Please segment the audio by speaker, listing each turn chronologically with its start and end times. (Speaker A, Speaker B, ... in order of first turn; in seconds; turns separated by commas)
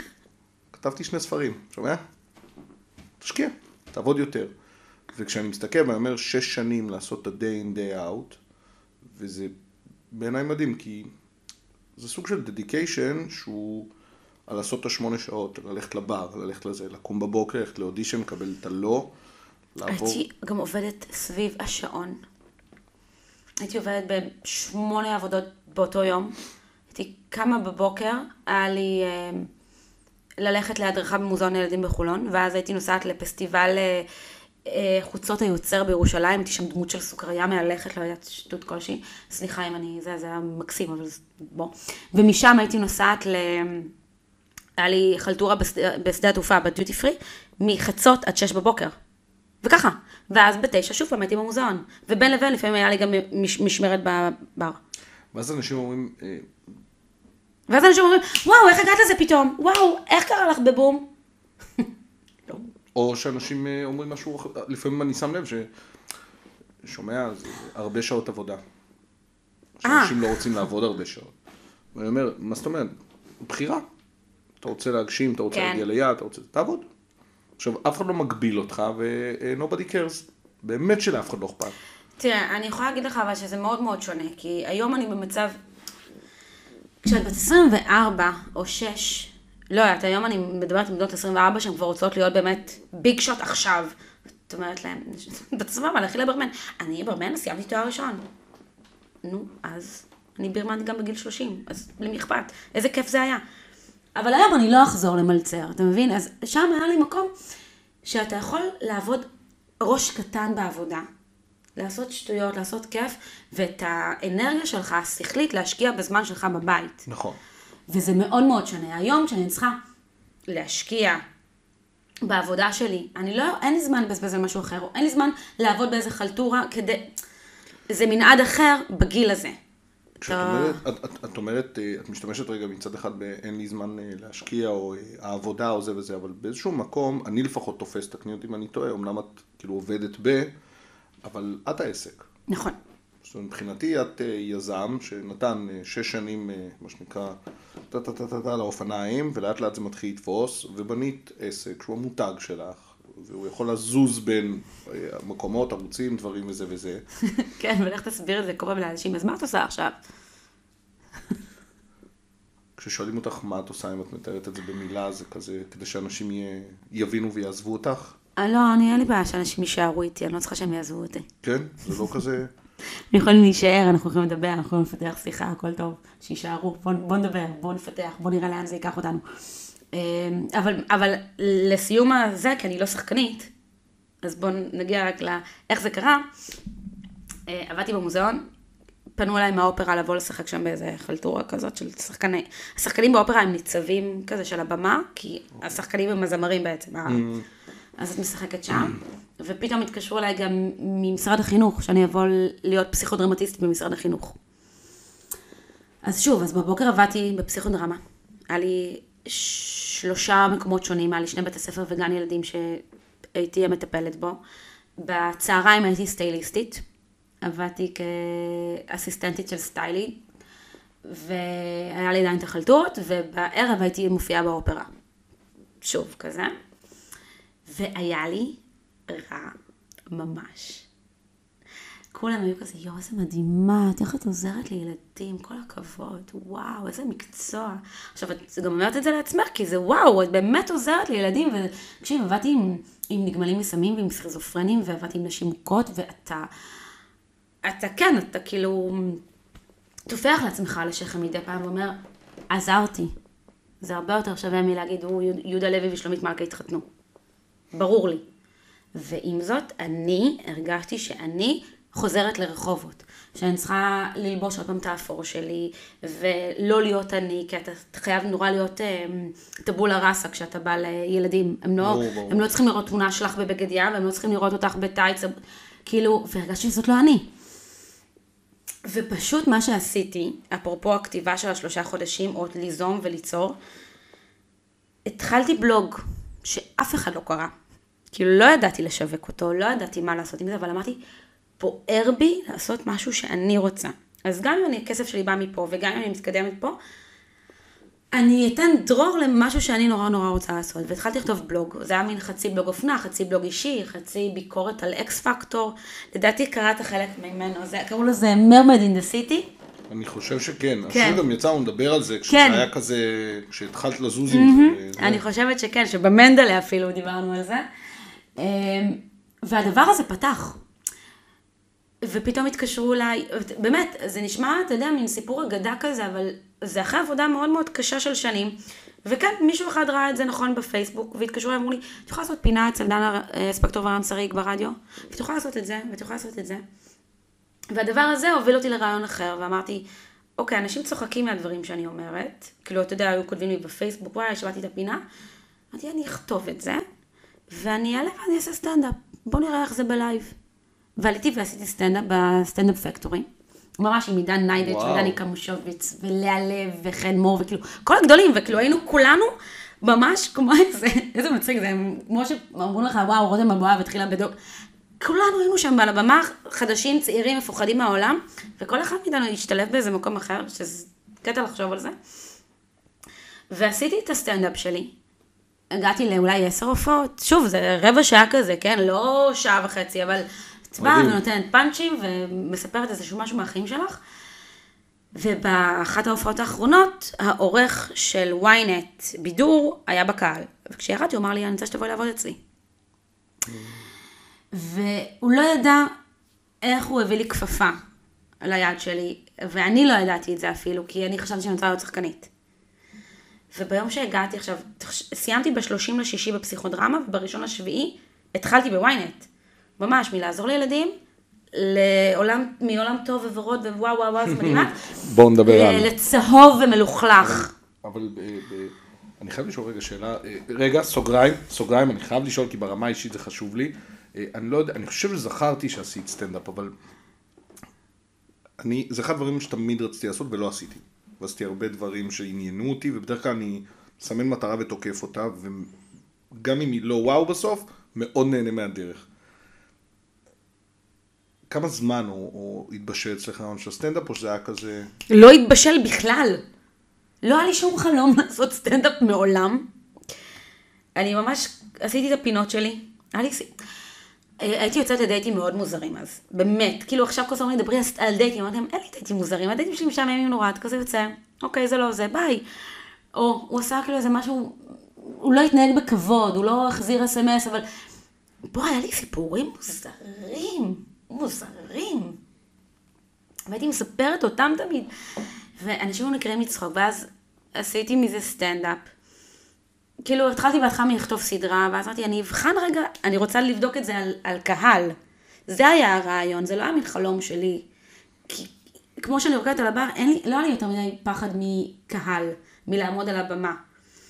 Speaker A: 0.7-2.0, Speaker A: 3.2-4.5, Speaker A: 5.1-8.4, Speaker A: 9.0-9.5, Speaker A: 10.1-11.1, Speaker A: 12.0-13.9, Speaker A: 14.5-19.1, Speaker A: 19.7-20.2, Speaker B: 19.9-22.2, Speaker B: 23.6-26.4, Speaker B: 26.9-29.5, Speaker B: 30.4-34.1, Speaker B: 34.6-43.9, Speaker B: 44.8-49.0, Speaker B: 49.6-54.8, Speaker A: 55.3-56.5, Speaker B: 57.7-61.1, Speaker A: 62.9-65.7, Speaker A: 66.8-68.6, Speaker A: 69.8-71.3, Speaker B: 69.8-70.3, Speaker A: 71.9-73.8, Speaker A: 74.6-76.8, Speaker B: 75.5-75.8, Speaker A: 77.6-81.8, Speaker B: 82.2-85.6, Speaker B: 87.0-93.9, Speaker B: 94.5-98.2, Speaker B: 99.2-103.4, Speaker B: 104.2-107.3, Speaker B: 108.0-109.3, Speaker B: 109.8-111.0, Speaker B: 111.8-117.1, Speaker A: 117.1-117.4, Speaker B: 117.9-119.8, Speaker B: 120.5-121.2, Speaker B: 122.2-127.1, Speaker B: 127.9-129.6, Speaker A: 130.2-140.5, Speaker B: 130.2-130.8, Speaker A: 141.2-142.3, Speaker B: 142.5-142.8, Speaker A: 143.2-147.3, Speaker A: 147.9-157.0, Speaker B: 157.3-160.0, Speaker A: 162.8-168.2, Speaker B: 168.4-171.3, Speaker A: 171.4-172.5, Speaker B: 173.1-179.2, Speaker B: 179.9-183.5, Speaker B: 184.2-186.3, Speaker B: 187.5-188.4, Speaker B: 189.2-197.2, Speaker A: 197.1-197.4, Speaker B: 198.0-204.4, Speaker B: 206.0-212.8, Speaker B: 213.3-214.4, Speaker B: 215.0-216.8, Speaker B: 217.4-220.2, Speaker B: 221.0-224.9, Speaker B: 225.8-226.5, Speaker B: 227.7-229.5, Speaker B: 230.1-230.9, Speaker B: 232.1-246.5, Speaker B: 247.6-249.2, Speaker B: 250.1-253.1, Speaker B: 253.8-256.8, Speaker B: 257.7-258.2, Speaker B: 258.9-275.3, Speaker A: 271.8-272.4, Speaker B: 275.9-277.3, Speaker B: 278.8-283.6, Speaker B: 285.0-287.5, Speaker B: 288.1-291.0, Speaker B: 291.6-296.8, Speaker B: 298.1-309.5, Speaker A: 309.9-315.2, Speaker B: 310.9-311.2, Speaker B: 312.3-312.7, Speaker B: 314.3-317.6, Speaker B: 318.4-320.6, Speaker B: 322.0-336.6, Speaker B: 337.7-339.8, Speaker B: 340.4-345.0, Speaker B: 345.7-346.8, Speaker B: 347.5-350.3, Speaker B: 351.0-364.3, Speaker A: 354.5-355.2, Speaker B: 365.0-371.9, Speaker B: 373.5-374.9, Speaker B: 375.7-384.0, Speaker A: 380.8-381.2, Speaker B: 385.1-392.4, Speaker A: 393.4-393.8, Speaker B: 394.5-395.9, Speaker B: 396.6-397.8, Speaker B: 398.4-402.3, Speaker B: 403.5-409.2, Speaker B: 409.8-410.9, Speaker B: 411.5-414.8, Speaker A: 414.3-415.9, Speaker B: 415.4-417.5, Speaker A: 417.2-426.7, Speaker A: 428.6-435.7, Speaker A: 436.3-439.1, Speaker A: 441.5-444.9, Speaker B: 445.1-446.4, Speaker B: 447.2-449.7, Speaker B: 450.9-453.5, Speaker B: 454.4-462.4, Speaker B: 463.1-467.6, Speaker B: 468.4-472.2, Speaker B: 473.5-474.9, Speaker B: 475.6-478.9, Speaker B: 480.0-484.9, Speaker B: 485.5-487.6, Speaker B: 488.3-493.6